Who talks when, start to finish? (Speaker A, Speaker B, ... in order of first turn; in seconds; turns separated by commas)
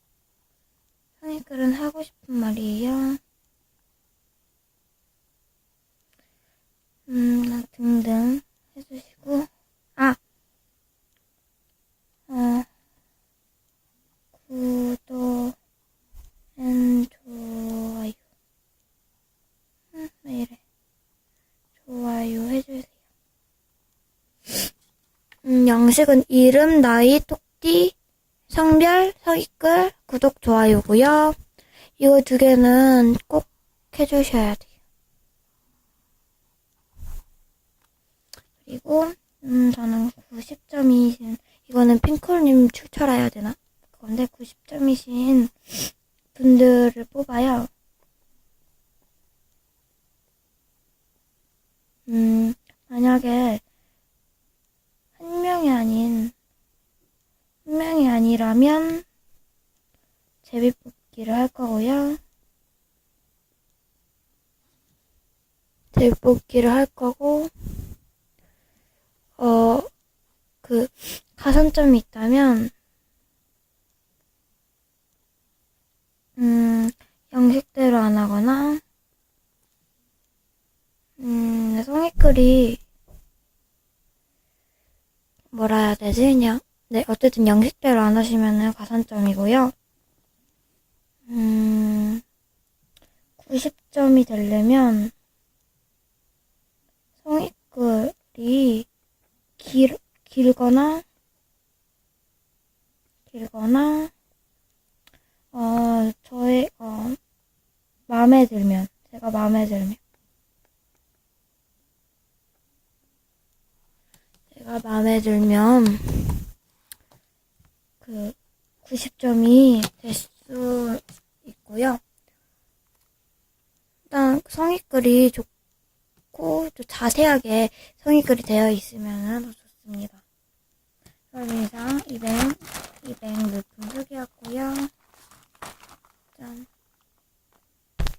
Speaker A: 1.2-3.2, Speaker A: 7.1-10.2, Speaker A: 12.3-12.7, Speaker A: 14.3-15.6, Speaker A: 16.6-18.2, Speaker A: 19.9-20.6, Speaker A: 21.8-22.9, Speaker A: 25.4-27.9, Speaker A: 28.5-31.4, Speaker A: 32.0-34.7, Speaker A: 38.6-47.7, Speaker A: 52.1-53.6, Speaker A: 55.2-56.3, Speaker A: 57.6-59.0, Speaker A: 60.4-62.2, Speaker A: 65.9-67.5, Speaker A: 69.4-69.9, Speaker A: 70.6-72.7, Speaker A: 76.4-78.8, Speaker A: 81.2-82.8, Speaker A: 85.5-89.7, Speaker A: 91.3-92.2, Speaker A: 93.4-95.1, Speaker A: 97.2-98.9, Speaker A: 99.6-101.0, Speaker A: 103.3-104.1, Speaker A: 105.5-107.2, Speaker A: 108.1-110.0, Speaker A: 114.5-116.5, Speaker A: 118.0-122.0, Speaker A: 124.1-125.5, Speaker A: 126.3-130.2, Speaker A: 131.3-134.9, Speaker A: 136.3-136.7